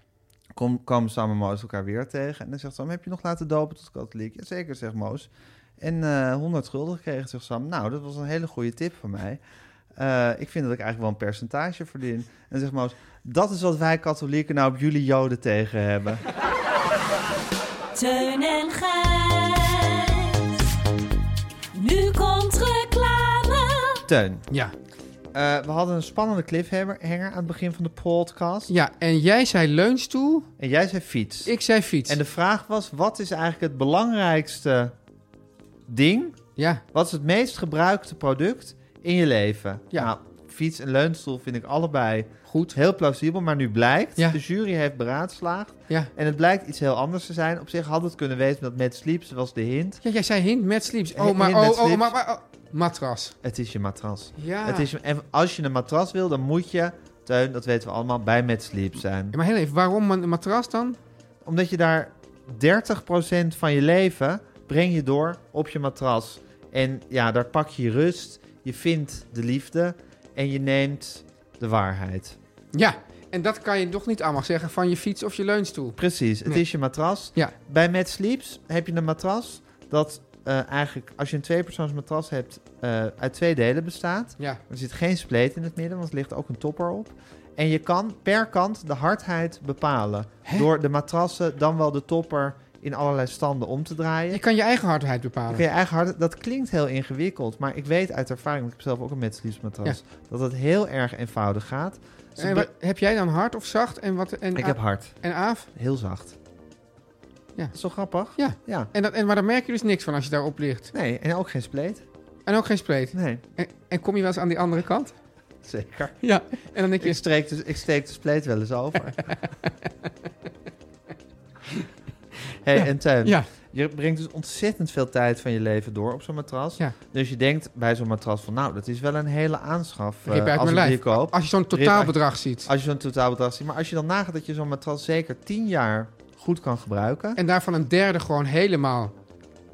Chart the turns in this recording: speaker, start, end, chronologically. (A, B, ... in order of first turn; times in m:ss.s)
0:00.5-0:09.4 A
0:10.0-0:16.2 A
0:18.0-0:20.7 B
0:21.7-0:24.0 B
0:24.0-0:24.4 A
0:25.3-0:28.7 A
0:28.7-0:30.5 C
0:30.6-0:31.5 A
0:31.5-0:32.2 C
0:32.1-0:35.0 A
0:35.9-0:36.4 A
0:36.6-0:36.8 C
0:36.9-0:50.0 A
0:42.5-0:42.8 C
0:50.0-0:53.4 C
0:51.1-0:52.2 A
0:53.4-0:59.4 A
0:54.4-0:54.9 C
0:59.3-1:01.0 C
1:01.4-1:12.4 A
1:12.7-1:16.6 C
1:16.0-1:34.4 A
1:34.3-1:35.6 C
1:35.5-1:42.7 A
1:42.4-1:45.7 C
1:44.6-1:45.2 A
1:45.7-1:46.4 A
1:47.7-1:48.9 A
1:48.3-1:50.9 C
1:50.9-1:52.0 A
1:52.5-1:55.1 C
1:53.1-1:53.4 A
1:55.6-1:56.3 A
1:56.2-1:57.2 C
1:57.0-1:59.3 A
1:59.2-1:59.7 C
2:02.6-2:17.4 A
2:02.7-2:03.5 C
2:10.3-2:12.7 C
2:17.4-2:19.1 C